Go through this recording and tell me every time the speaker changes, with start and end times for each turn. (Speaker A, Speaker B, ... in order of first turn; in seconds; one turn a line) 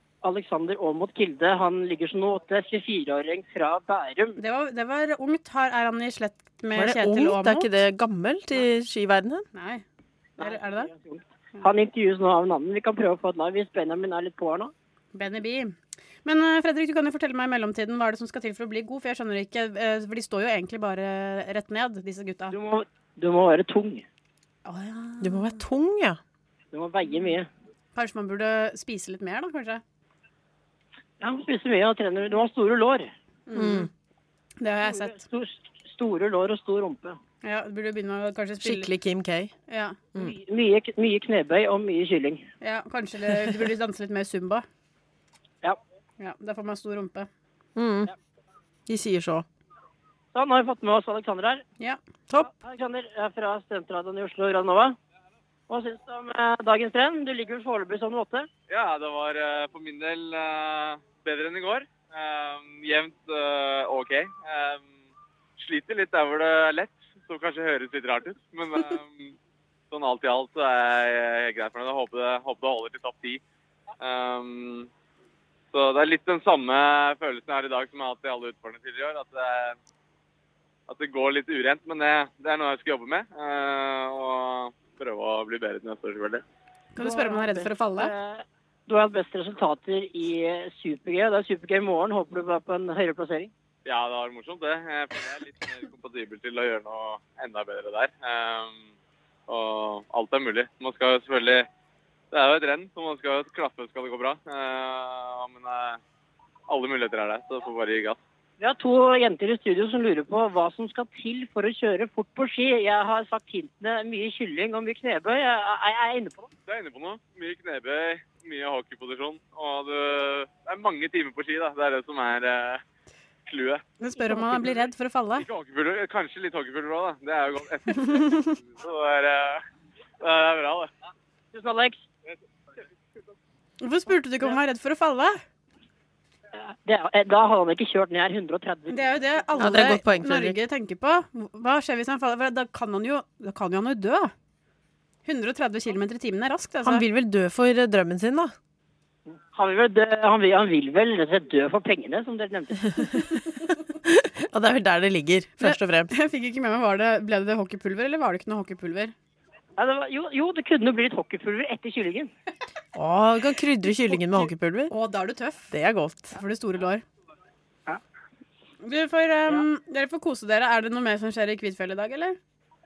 Speaker A: 0.2-4.4
Speaker B: 4.4-7.7
Speaker C: 6.7-9.4
Speaker B: 9.5-9.8
Speaker B: 10.4-10.9
Speaker A: 10.4-14.7
Speaker B: 15.2-22.6
Speaker A: 22.5-24.1
Speaker B: 24.6-25.6
Speaker C: 25.2-26.2
Speaker A: 26.7-27.5
Speaker B: 27.9-29.8
Speaker A: 31.2-33.1
Speaker B: 33.5-33.9
Speaker C: 33.5-33.9
Speaker B: 34.6-35.2
Speaker A: 34.8-37.2
Speaker B: 37.4-38.9
Speaker C: 38.6-39.5
Speaker B: 39.7-40.0
Speaker A: 40.1-42.5
Speaker B: 42.6-44.6
Speaker B: 46.2-47.3
Speaker C: 47.8-48.1
Speaker C: 48.9-49.5
Speaker A: 50.3-51.6
Speaker A: 52.4-55.0
Speaker A: 55.7-58.5
Speaker D: 58.7-64.9
Speaker D: 65.6-69.3
Speaker D: 69.9-73.4
Speaker D: 74.0-74.9
Speaker D: 75.7-79.8
Speaker D: 80.9-86.4
Speaker B: 87.0-88.1
Speaker A: 87.0-93.5
Speaker D: 93.9-98.8
Speaker D: 99.5-101.7
Speaker D: 102.3-106.0
Speaker D: 106.7-108.2
Speaker A: 108.6-116.5
Speaker D: 116.7-122.8
Speaker D: 123.5-123.8
Speaker B: 124.0-125.5
Speaker A: 124.2-124.6
Speaker D: 125.4-129.6
Speaker D: 130.2-130.9
Speaker A: 131.5-132.0
Speaker B: 133.8-135.4
Speaker A: 136.5-139.9
Speaker B: 138.9-144.3
Speaker C: 139.6-140.6
Speaker B: 145.2-147.1
Speaker C: 146.8-148.5
Speaker A: 149.5-152.9
Speaker C: 154.1-156.1
Speaker B: 155.6-159.1
Speaker A: 159.8-162.3
Speaker C: 162.9-164.9
Speaker B: 164.1-165.7
Speaker C: 165.7-166.3
Speaker B: 166.3-167.0
Speaker B: 168.8-172.4